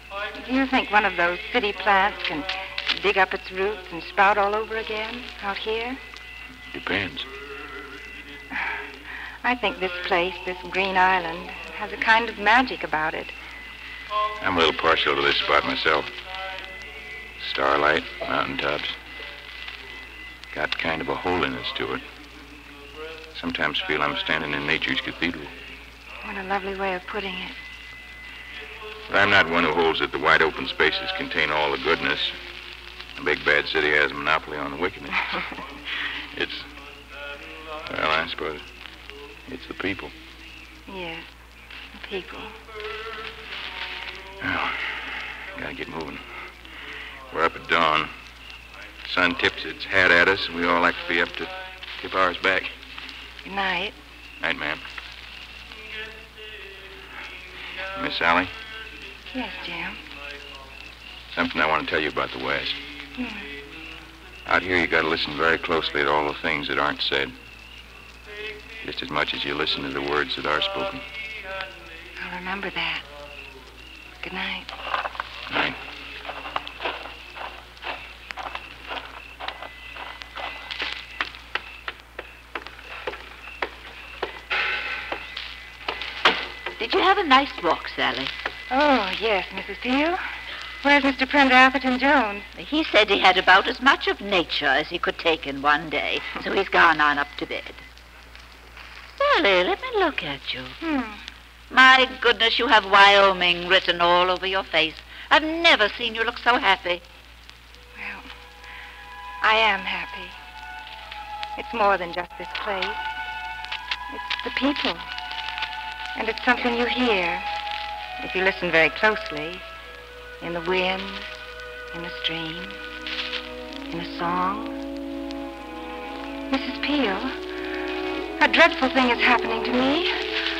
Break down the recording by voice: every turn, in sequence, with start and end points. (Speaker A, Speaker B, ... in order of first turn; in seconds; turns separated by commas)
Speaker A: 0.4-6.0, Speaker B: 6.7-7.3, Speaker A: 9.4-13.3, Speaker B: 14.4-16.1, Speaker B: 17.4-19.0, Speaker B: 20.5-22.0, Speaker B: 23.3-25.5, Speaker A: 26.2-27.6, Speaker B: 29.1-32.3, Speaker B: 33.2-35.4, Speaker B: 36.3-36.7, Speaker B: 37.9-38.6, Speaker B: 39.5-40.1, Speaker A: 40.9-41.3, Speaker A: 41.9-42.5, Speaker B: 44.4-44.8, Speaker B: 45.5-46.2, Speaker B: 47.3-48.1, Speaker B: 49.0-52.7, Speaker A: 53.4-54.0, Speaker B: 54.4-54.8, Speaker B: 58.0-58.5, Speaker A: 59.3-60.0, Speaker B: 61.3-62.8, Speaker A: 63.2-63.5, Speaker B: 64.5-67.3, Speaker B: 68.8-71.0, Speaker A: 72.2-73.0, Speaker A: 74.2-74.7, Speaker B: 75.5-75.8, Speaker C: 86.8-88.3, Speaker A: 88.7-90.2, Speaker A: 90.8-92.5, Speaker C: 92.5-97.8, Speaker C: 99.2-100.8, Speaker A: 100.8-101.2, Speaker C: 101.7-107.0, Speaker A: 108.0-108.3, Speaker A: 109.4-110.4, Speaker A: 111.5-113.0, Speaker A: 114.1-115.0, Speaker A: 116.1-117.5, Speaker A: 118.2-119.6, Speaker A: 120.4-121.3, Speaker A: 121.9-122.8, Speaker A: 123.9-124.8, Speaker A: 126.5-127.3, Speaker A: 128.4-130.1